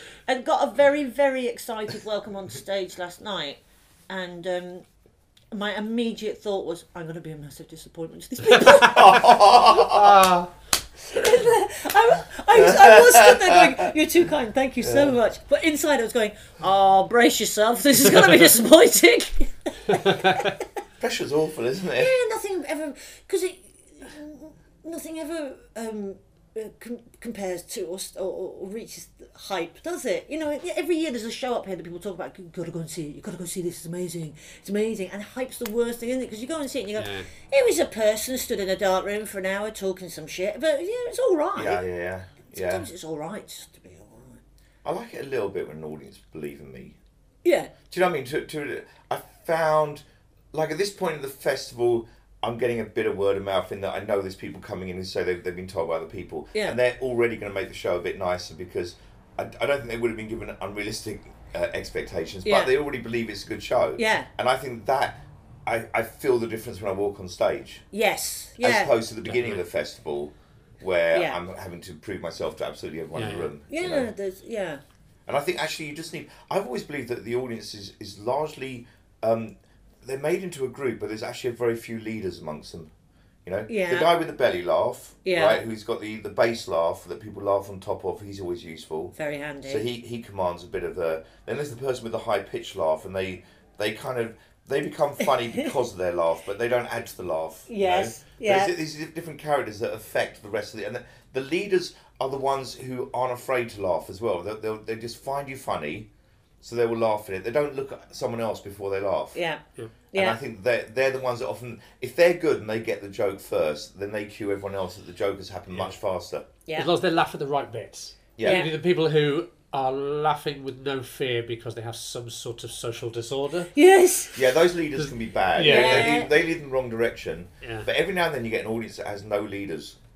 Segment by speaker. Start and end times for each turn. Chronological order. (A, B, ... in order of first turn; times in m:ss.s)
0:00.3-0:04.8 A
0:05.5-0:09.8 A
0:08.6-0:10.2 B
0:09.8-0:10.5 C
0:11.1-0:20.6 A
0:12.6-0:13.9 B
0:14.8-0:15.2 B
0:19.9-0:20.5 C
0:21.0-0:22.1 B
0:22.0-0:41.8 A
0:37.0-0:37.3 C
0:41.6-0:42.9 B
0:42.5-0:44.4 A
0:44.8-0:47.0 B
0:47.4-0:47.7 A
0:47.9-1:07.8 B
1:02.5-1:02.7 A
1:04.0-1:04.3 A
1:07.9-1:08.9 A
1:08.6-1:14.1 B
1:09.3-1:09.6 C
1:11.1-1:11.4 A
1:13.2-1:13.5 C
1:13.7-1:14.8 A
1:15.3-1:22.9 B
1:23.4-1:46.1 B
1:23.7-1:24.1 A
1:25.2-1:25.6 A
1:29.2-1:29.9 A
1:37.7-1:38.7 A
1:46.6-1:49.4 B
1:49.3-1:49.6 A
1:50.1-1:50.4 A
1:50.2-1:56.5 B
1:56.8-2:03.7 C
1:58.4-1:58.6 B
1:58.4-1:58.7 A
2:03.8-2:04.5 A
2:04.4-2:10.0 B
2:05.0-2:06.2 C
2:05.6-2:06.3 A
2:07.6-2:07.9 C